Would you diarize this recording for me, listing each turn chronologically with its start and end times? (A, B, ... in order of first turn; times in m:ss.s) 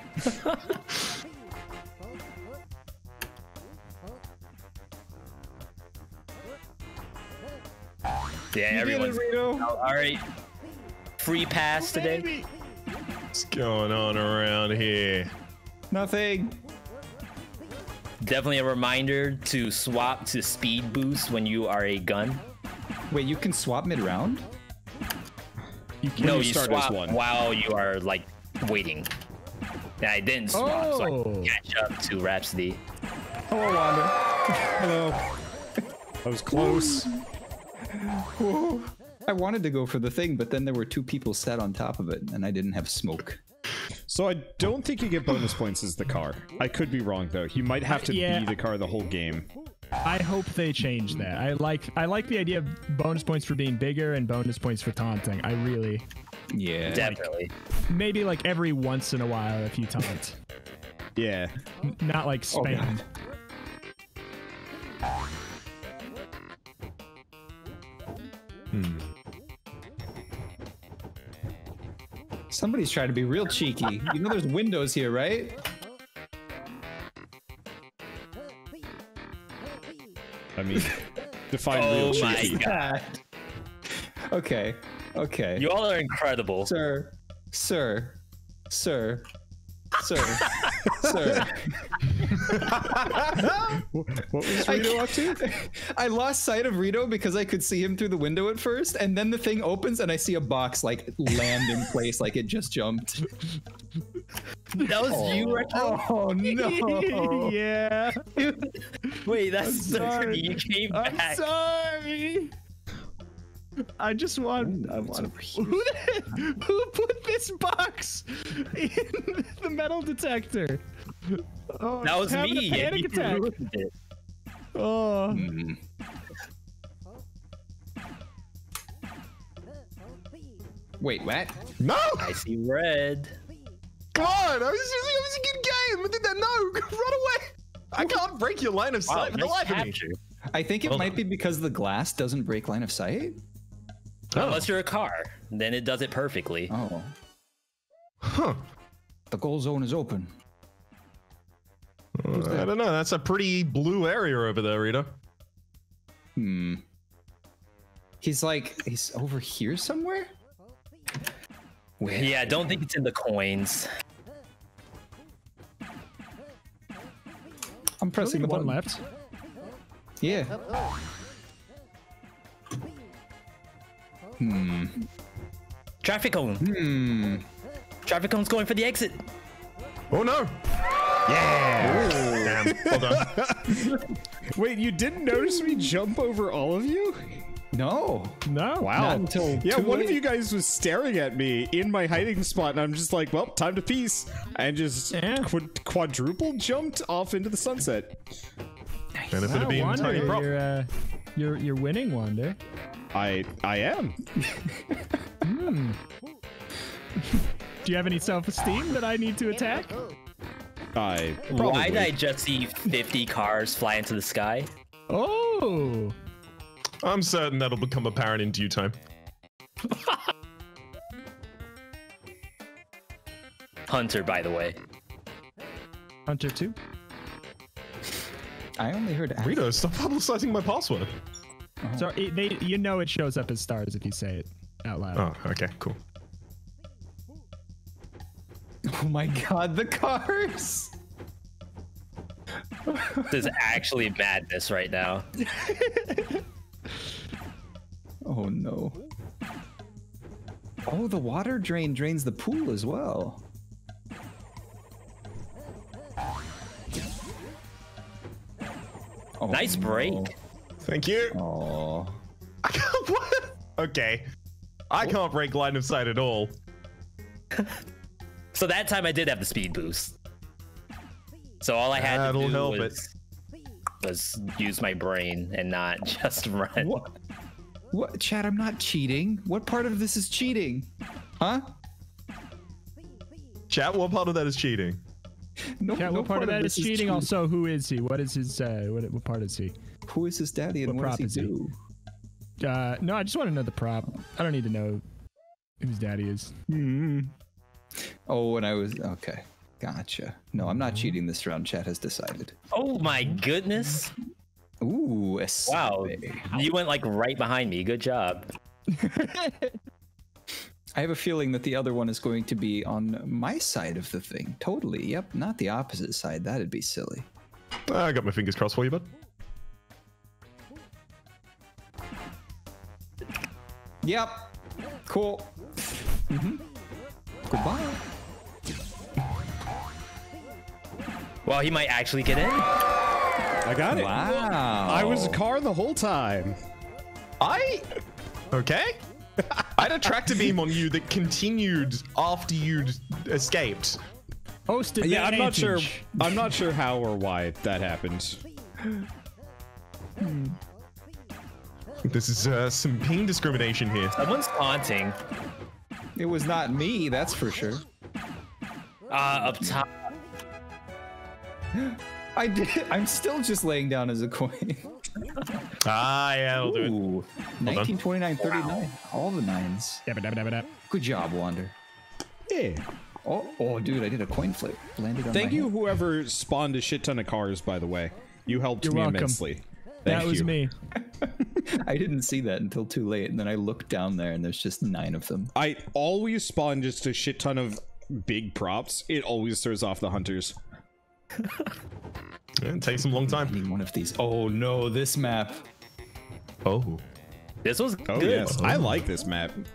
0:00.3-0:00.7 A
0:08.5-0:10.2 A
0:08.7-0:09.7 B
0:11.2-0:12.3 A
0:12.0-0:12.4 C
0:13.3-0:15.3 D
0:15.9-0:16.6 B
0:18.2-0:22.4 A
0:23.1-0:24.5 B
0:26.0-0:26.3 C
0:26.2-0:27.2 E
0:26.2-0:29.1 A
0:30.0-0:32.8 A
0:30.5-0:31.5 C
0:33.5-0:35.2 B
0:36.2-0:37.1 E
0:36.5-0:37.2 B
0:37.9-0:43.4 B
0:44.1-0:49.5 E
0:47.9-0:48.5 C
0:50.0-0:56.0 C
0:56.5-0:57.2 B
0:56.9-0:57.5 A
0:57.9-1:00.4 C
1:01.2-1:01.5 E
1:02.0-1:03.0 C
1:02.5-1:03.0 B
1:08.7-1:09.1 D
1:12.5-1:15.6 B
1:20.6-1:22.6 E
1:21.7-1:23.0 A
1:22.0-1:23.2 B
1:24.3-1:25.7 B
1:25.6-1:26.7 A
1:26.6-1:29.2 B
1:30.0-1:33.8 B
1:30.4-1:30.7 A
1:31.1-1:31.4 E
1:32.4-1:33.0 D
1:33.4-1:35.4 E
1:34.5-1:43.3 B
1:44.8-1:46.0 A
1:45.0-1:47.6 B
1:46.4-1:48.3 C
1:48.4-1:51.4 A
1:49.1-1:52.5 C
1:54.0-2:03.5 C
1:54.6-1:55.8 B
2:02.0-2:03.9 A
2:04.8-2:05.5 C
2:05.3-2:05.8 B
2:11.0-2:11.6 B
2:11.8-2:12.4 D
2:12.2-2:13.4 A
2:14.1-2:20.0 D
2:19.1-2:20.2 A
2:20.5-2:23.4 B
2:20.9-2:21.2 D
2:24.3-2:24.7 D
2:24.4-2:26.7 A
2:26.7-2:27.1 B
2:28.2-2:28.6 D
2:29.3-2:30.3 B
2:32.2-2:35.1 D
2:32.3-2:32.7 B
2:36.4-2:36.8 B
2:38.2-2:40.3 B
2:42.0-2:42.8 B
2:42.1-2:43.9 A
2:48.0-2:48.8 B
2:48.2-2:49.0 C
2:50.2-2:50.6 B
2:54.4-2:55.1 B
2:56.0-2:56.7 A
2:56.6-2:57.4 B
2:58.1-2:59.2 A
3:00.1-3:00.6 D
3:01.3-3:04.0 E
3:01.8-3:02.7 B
3:02.4-3:03.4 D
3:03.7-3:04.1 B
3:04.5-3:07.5 E
3:07.7-3:10.2 B
3:08.5-3:09.0 C
3:08.8-3:18.2 E
3:15.1-3:15.5 C
3:19.2-3:20.4 B
3:19.3-3:20.5 D
3:19.4-3:22.6 C
3:23.1-3:24.2 E
3:24.4-3:25.2 B
3:25.4-3:26.0 C
3:27.8-3:30.0 C
3:31.0-3:32.1 E
3:31.5-3:34.7 A
3:35.1-3:36.2 C
3:37.0-3:39.0 D
3:39.9-3:40.2 A
3:43.9-3:44.8 A
3:46.3-3:46.8 C
3:48.8-3:49.7 B
3:49.4-3:51.1 D
3:51.8-3:52.1 B
3:52.0-3:55.3 C
3:55.2-3:56.0 D
3:58.9-4:00.9 B
4:02.9-4:03.5 B
4:03.3-4:05.3 A
4:05.7-4:06.2 C
4:08.2-4:09.0 B
4:10.9-4:13.4 B
4:19.4-4:20.3 B
4:19.5-4:20.3 A
4:20.8-4:21.4 D
4:21.3-4:22.2 B
4:22.6-4:24.2 D
4:24.9-4:26.5 D
4:28.5-4:30.2 A
4:31.6-4:33.1 A
4:31.9-4:33.0 D
4:34.0-4:37.0 A
4:36.8-4:37.2 B
4:37.9-4:41.7 B
4:43.7-4:45.0 D
4:45.8-4:47.3 B
4:46.0-4:49.7 C
4:50.1-4:51.7 B
4:50.9-4:51.5 C
4:52.6-4:55.0 C
4:55.8-4:56.5 C
4:56.7-4:57.3 B
4:58.3-5:02.5 B
5:02.7-5:04.1 A
5:04.8-5:06.7 B
5:05.7-5:08.5 A
5:09.1-5:09.7 C
5:11.0-5:17.3 B
5:17.9-5:19.1 D
5:24.0-5:24.5 B
5:25.1-5:26.6 B
5:27.5-5:28.0 B
5:31.4-5:32.7 A
5:33.6-5:34.2 E
5:33.9-5:35.4 B
5:34.8-5:36.6 E
5:37.4-5:37.9 D
5:38.5-5:39.0 D
5:39.5-5:39.9 E
5:39.8-5:44.0 D
5:44.7-5:46.0 C
5:45.0-5:48.4 E
5:50.2-5:50.6 B
5:52.1-5:54.2 D
5:54.2-5:55.2 A
5:56.2-5:57.8 B
5:59.1-5:59.9 A
5:59.3-5:59.8 B
6:01.7-6:04.9 B
6:05.8-6:07.0 D
6:06.6-6:10.0 B
6:07.6-6:07.9 D
6:08.5-6:08.8 A
6:10.1-6:10.7 C
6:10.9-6:11.8 B
6:12.5-6:12.8 E
6:13.2-6:15.7 B
6:15.3-6:20.6 E
6:18.8-6:19.4 C
6:20.0-6:20.7 C
6:21.0-6:25.5 B
6:25.5-6:30.6 E
6:31.4-6:31.7 A
6:32.6-6:33.6 D
6:33.2-6:35.6 B
6:36.6-6:37.0 D
6:37.6-6:38.7 A
6:38.1-6:39.6 E
6:38.2-6:39.0 D